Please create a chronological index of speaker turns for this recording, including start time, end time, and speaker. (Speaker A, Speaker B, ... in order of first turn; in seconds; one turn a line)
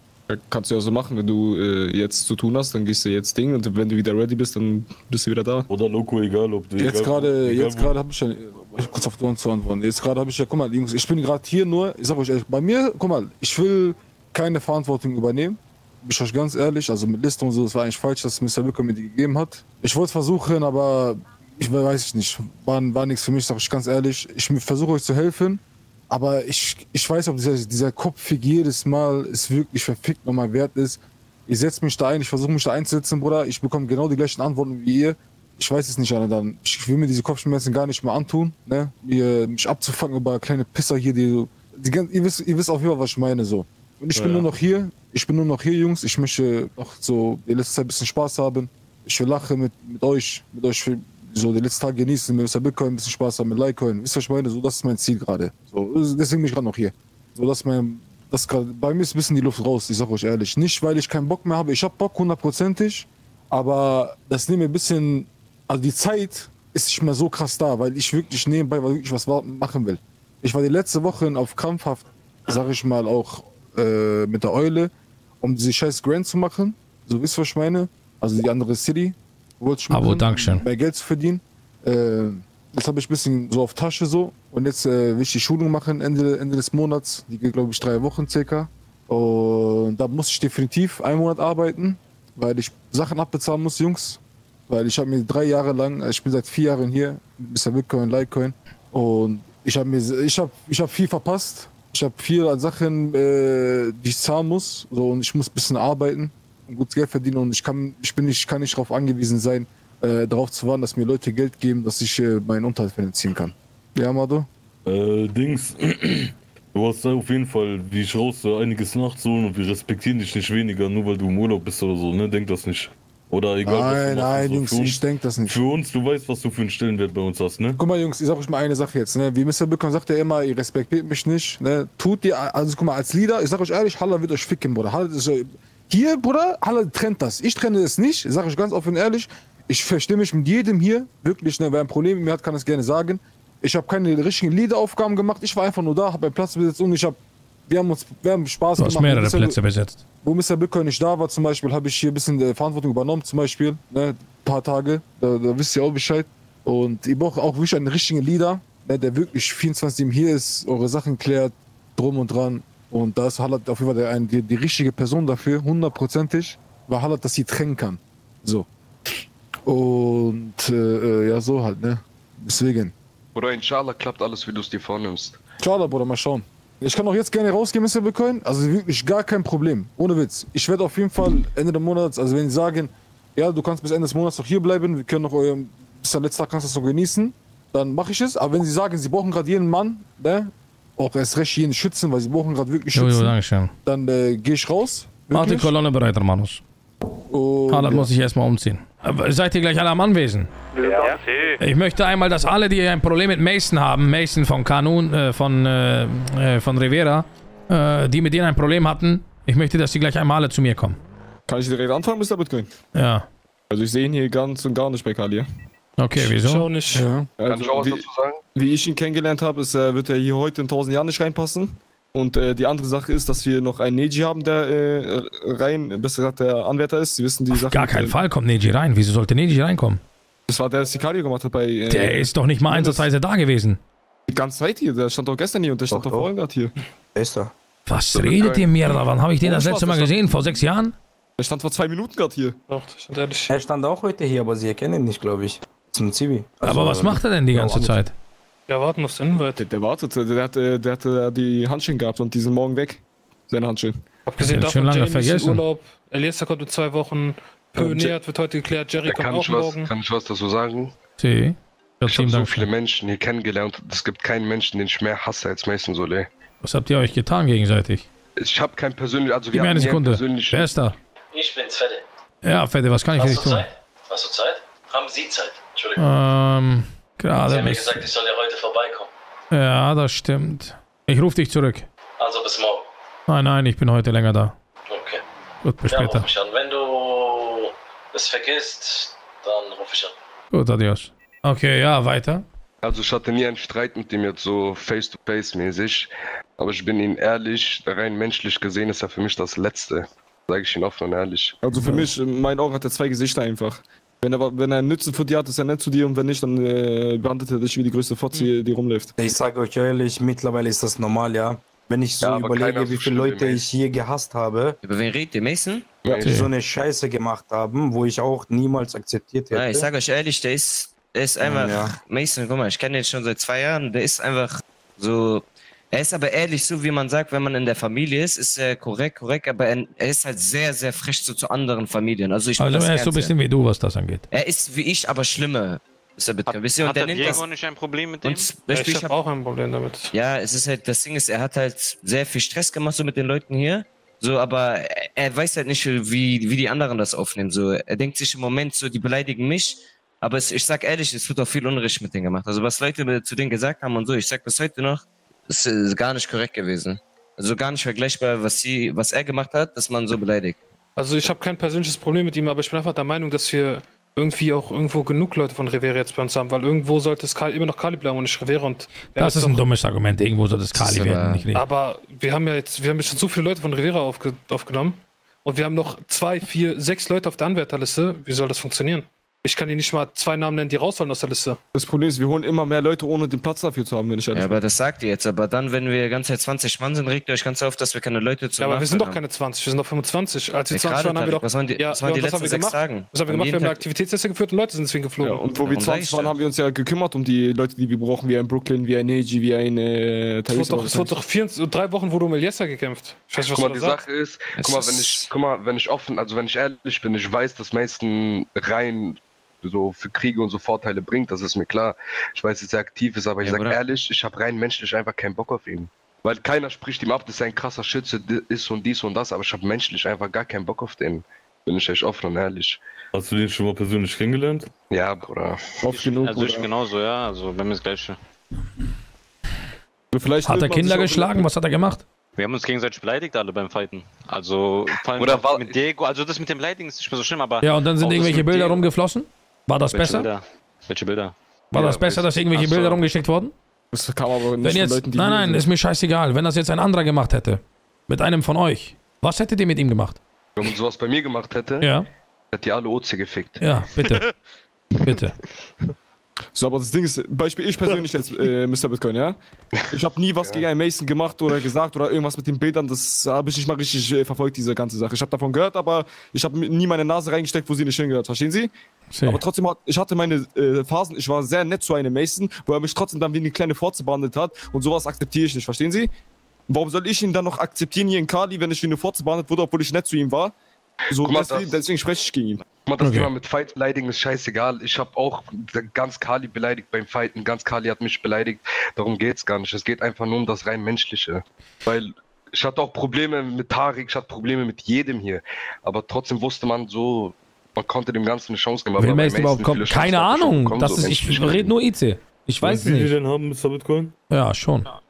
Speaker A: 0.3-5.7
Speaker B: 5.7-8.0
Speaker C: 6.8-74.9
Speaker C: 75.4-114.5
Speaker D: 79.9-80.6
Speaker B: 114.9-127.8
Speaker C: 123.6-125.5
Speaker C: 127.8-149.6
Speaker D: 148.8-150.0
Speaker C: 150.2-172.9
Speaker E: 173.3-175.4
Speaker C: 175.6-195.7
Speaker D: 192.9-193.7
Speaker D: 195.3-196.6
Speaker C: 197.3-198.1
Speaker D: 197.7-200.5
Speaker F: 200.8-201.6
Speaker D: 201.6-211.0
Speaker A: 211.5-212.7
Speaker D: 212.9-213.3
Speaker A: 213.7-215.5
Speaker D: 216.0-216.7
Speaker G: 216.2-217.1
Speaker C: 216.9-217.3
Speaker A: 217.4-228.2
Speaker E: 217.5-218.4
Speaker D: 227.5-230.0
Speaker A: 230.5-233.1
Speaker D: 231.9-233.8
Speaker A: 234.3-236.7
Speaker H: 235.9-236.3
Speaker H: 237.1-237.5
Speaker D: 237.9-240.9
Speaker E: 238.1-238.8
Speaker A: 239.4-240.6
Speaker A: 241.4-242.6
Speaker G: 242.7-243.5
Speaker H: 243.5-248.0
Speaker D: 246.6-248.1
Speaker G: 248.7-249.6
Speaker A: 249.6-254.0
Speaker G: 254.3-259.9
Speaker D: 254.4-255.6
Speaker D: 257.8-258.1
Speaker E: 259.1-260.9
Speaker D: 261.2-262.7
Speaker E: 262.1-266.3
Speaker D: 266.6-268.1
Speaker E: 268.4-270.7
Speaker D: 269.5-271.0
Speaker I: 271.3-272.0
Speaker D: 272.4-273.7
Speaker I: 273.1-276.1
Speaker D: 276.0-278.1
Speaker I: 277.4-279.1
Speaker D: 279.5-281.9
Speaker I: 282.2-282.9
Speaker D: 283.3-284.6
Speaker I: 284.9-285.2
Speaker D: 285.6-286.3
Speaker I: 285.9-290.1
Speaker D: 290.5-292.4
Speaker E: 292.8-301.6
Speaker A: 301.6-309.1
Speaker H: 309.2-314.8
Speaker E: 312.2-313.7
Speaker J: 314.8-316.0
Speaker H: 316.1-319.9
Speaker D: 316.2-316.5
Speaker J: 319.5-333.3
Speaker H: 321.4-322.0
Speaker D: 332.6-334.2
Speaker J: 334.3-337.5
Speaker F: 336.5-338.5
Speaker J: 338.2-339.1
Speaker G: 338.7-340.1
Speaker J: 340.1-360.6
Speaker G: 361.0-369.6
Speaker D: 369.2-371.6
Speaker J: 370.7-371.4
Speaker G: 371.6-381.6
Speaker A: 381.7-384.6
Speaker J: 384.3-389.2
Speaker G: 388.6-395.7
Speaker J: 390.7-393.8
Speaker A: 395.2-401.2
Speaker J: 395.7-396.3
Speaker G: 400.5-404.1
Speaker E: 403.5-422.8
Speaker J: 404.6-405.3
Speaker J: 413.4-413.8
Speaker B: 423.1-424.7
Speaker E: 424.9-425.8
Speaker F: 425.9-428.2
Speaker C: 426.0-426.4
Speaker A: 426.1-426.7
Speaker A: 430.1-431.5
Speaker D: 430.4-432.0
Speaker F: 432.4-438.9
Speaker E: 435.2-435.8
Speaker D: 437.6-440.3
Speaker F: 439.9-442.9
Speaker D: 441.7-443.5
Speaker E: 441.8-442.2
Speaker A: 443.9-445.7
Speaker D: 444.6-450.2
Speaker E: 450.6-451.9
Speaker E: 452.5-453.6
Speaker D: 453.6-454.2
Speaker D: 455.0-455.3
Speaker A: 456.6-459.4
Speaker E: 459.7-460.7
Speaker A: 459.9-468.7
Speaker D: 469.1-469.4
Speaker A: 469.2-476.1
Speaker A: 476.7-480.5
Speaker A: 481.1-482.6
Speaker E: 481.2-481.8
Speaker E: 482.9-501.7
Speaker D: 483.0-483.3
Speaker D: 499.0-503.1
Speaker B: 502.6-504.1
Speaker D: 504.3-504.9